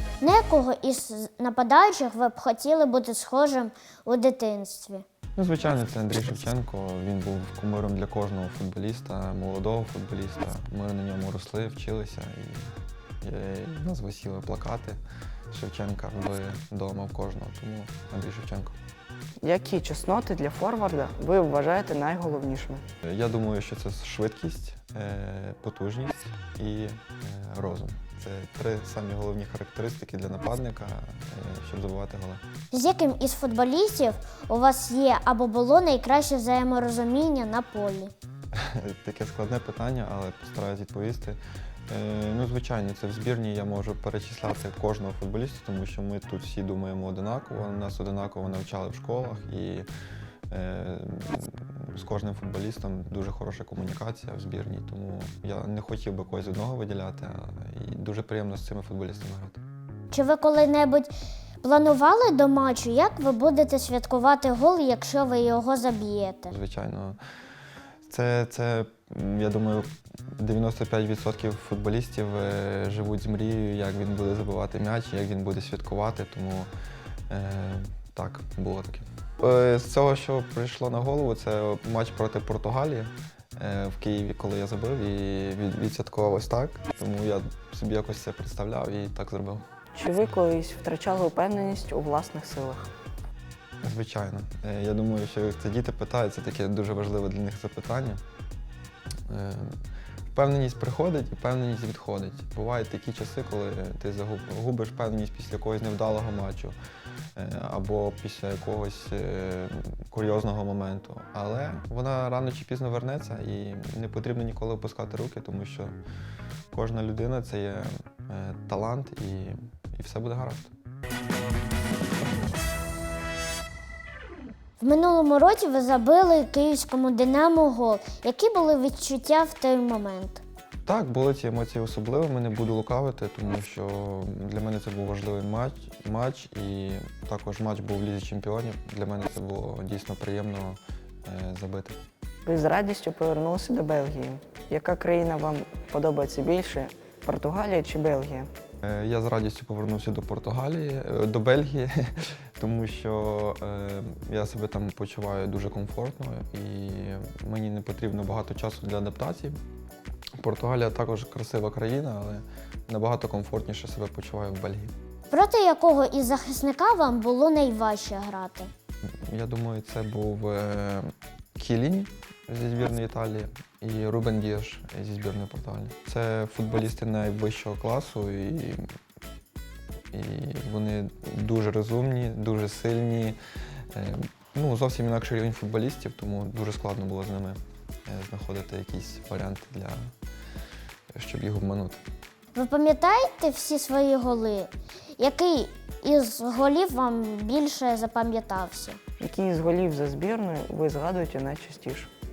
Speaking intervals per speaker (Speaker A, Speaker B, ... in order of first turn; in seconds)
Speaker A: 0.2-5.0, 32.7-38.1, 60.1-61.1, 61.6-66.5, 124.8-130.4, 165.3-168.7, 192.5-199.0
Speaker B: 5.4-18.7, 23.0-32.4, 38.5-49.9, 50.5-59.6, 66.5-67.2, 68.1-76.7, 77.3-89.6, 93.8-98.2, 99.3-99.8, 100.3-106.8, 107.3-115.9, 116.7-120.7, 130.8-142.0, 148.8-159.6, 160.4-164.9, 169.1-178.9, 180.1-183.4, 183.9-190.1, 191.1-192.0
Speaker C: 19.4-22.8, 89.9-92.9, 142.4-148.5, 199.2-202.1